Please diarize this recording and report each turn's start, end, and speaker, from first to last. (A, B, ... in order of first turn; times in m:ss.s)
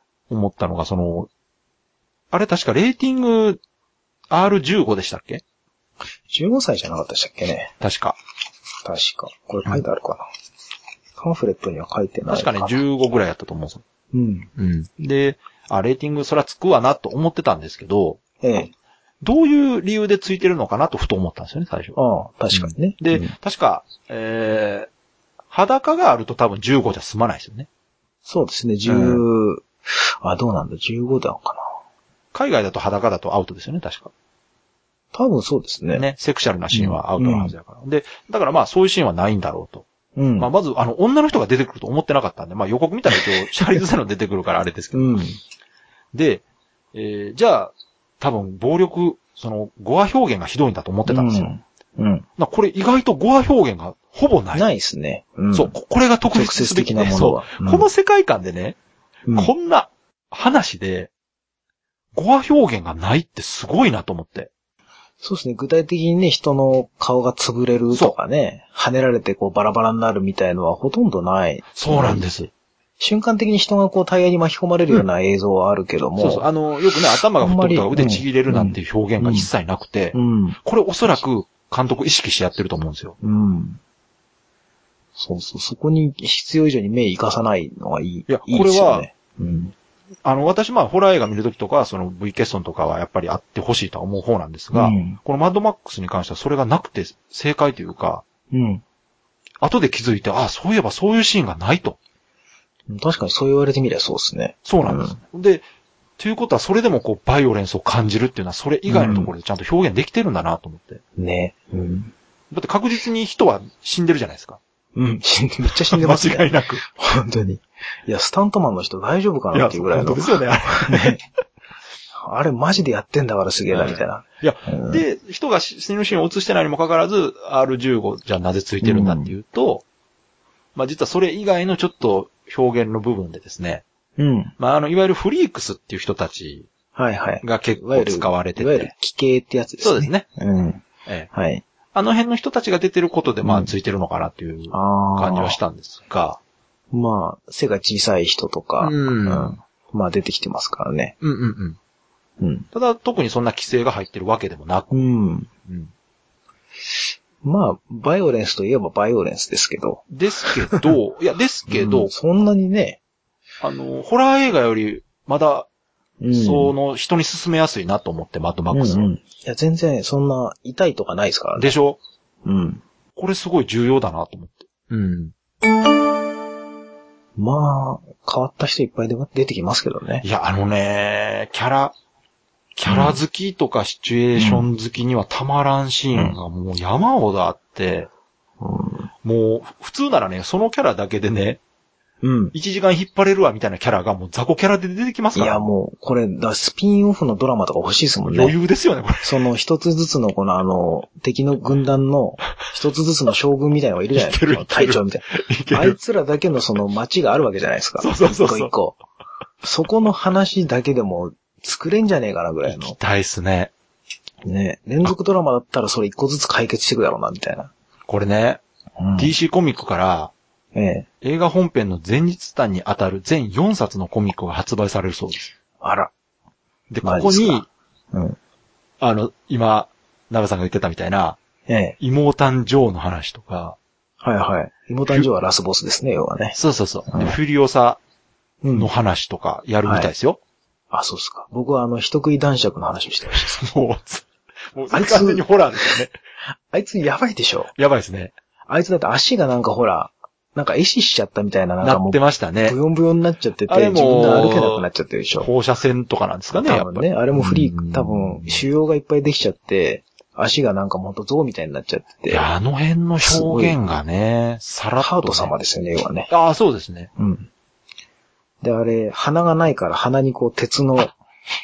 0:00.3-0:01.3 A
0:02.3-0:03.6 A
0:04.3-0:05.4 A
0:06.3-0:07.7 B
0:07.8-0:08.2 A
0:08.8-0:10.2 B
0:11.2-0:12.8 B
0:12.3-0:13.8 A
0:14.1-0:14.5 B
0:14.6-0:18.2 A
0:18.4-0:18.7 B
0:19.2-0:22.0 A
0:22.0-0:23.4 B
0:22.5-0:24.9 A
0:25.5-0:27.7 A
0:28.3-0:31.6 B
0:28.9-0:29.2 A
0:32.3-0:34.1 A
0:35.1-0:36.1 B
0:36.0-0:39.8 A
0:36.7-0:37.5 B
0:40.2-0:40.5 B
0:40.4-0:45.2 A
0:44.9-0:45.4 B
0:46.1-0:46.4 A
0:46.9-0:51.5 A
0:51.1-0:52.3 B
0:52.4-0:54.6 A
0:54.5-0:55.8 B
0:55.5-0:58.8 A
0:56.3-0:57.9 B
0:59.3-0:59.5 B
0:59.4-1:01.1 A
1:02.2-1:04.5 A
1:05.2-1:12.2 B
1:11.8-1:12.5 A
1:13.0-1:16.5 B
1:16.2-1:23.2 A
1:17.4-1:19.5 B
1:20.1-1:20.6 B
1:23.2-1:23.8 B
1:25.2-1:29.7 B
1:28.3-1:29.1 A
1:30.2-1:38.2 A
1:34.7-1:35.2 B
1:38.5-1:38.8 B
1:39.6-1:42.0 A
1:42.9-1:45.2 B
1:44.6-1:45.6 A
1:46.2-1:51.0 A
1:48.9-1:49.3 B
1:51.2-1:52.1 B
1:52.5-1:54.6 A
1:55.0-2:01.2 B
1:55.9-1:56.8 A
1:59.5-2:01.2 A
2:02.2-2:05.0 B
2:03.7-2:09.8 A
2:08.8-2:09.3 B
2:10.8-2:13.8 A
2:14.2-2:14.5 B
2:14.6-2:16.7 A
2:17.0-2:21.6 B
2:17.4-2:18.9 A
2:19.8-2:20.2 A
2:21.9-2:26.4 A
2:23.4-2:23.7 B
2:24.7-2:25.6 B
2:26.9-2:31.2 B
2:28.8-2:29.6 A
2:31.2-2:31.8 A
2:32.4-2:32.7 B
2:32.7-2:35.0 A
2:34.9-2:35.5 B
2:37.4-2:40.1 B
2:40.1-2:42.1 A
2:41.7-2:43.0 B
2:43.6-2:45.7 A
2:46.2-2:46.7 B
2:46.3-2:49.1 A
2:48.7-2:51.7 B
2:51.6-2:52.0 A
2:52.4-2:52.8 B
2:53.2-2:55.3 A
2:57.4-3:00.2 B
3:00.2-3:01.9 A
3:02.8-3:08.1 A
3:02.9-3:03.2 B
3:04.4-3:04.7 B
3:06.1-3:06.4 B
3:08.6-3:09.1 B
3:09.2-3:11.6 A
3:12.2-3:12.6 B
3:12.5-3:15.7 A
3:15.4-3:18.6 B
3:18.3-3:19.5 A
3:19.2-3:29.0 B
3:24.2-3:26.0 A
3:28.0-3:28.7 A
3:29.6-3:33.0 B
3:32.7-3:33.7 A
3:34.4-3:37.7 B
3:38.1-3:38.6 A
3:39.0-3:39.3 B
3:39.2-3:40.3 A
3:40.7-3:41.1 B
3:41.2-3:45.5 A
3:45.8-3:46.1 B
3:46.9-3:47.7 A
3:47.0-3:48.4 B
3:49.0-3:51.4 A
3:51.7-3:52.0 B
3:52.0-3:53.8 A
3:54.2-3:56.6 B
3:56.6-3:58.0 A
3:57.1-3:57.4 B
3:58.6-3:58.9 B
3:58.8-4:00.4 A
3:59.8-4:00.1 B
4:00.9-4:03.6 B
4:03.3-4:06.1 A
4:04.9-4:06.0 B
4:06.7-4:07.7 B
4:07.8-4:08.3 A
4:08.7-4:15.5 B
4:11.8-4:12.8 A
4:13.7-4:14.9 A
4:15.4-4:18.6 A
4:16.5-4:22.5 B
4:22.3-4:25.5 A
4:23.2-4:23.8 B
4:25.0-4:26.3 B
4:26.3-4:27.1 A
4:27.2-4:27.5 B
4:28.6-4:31.2 B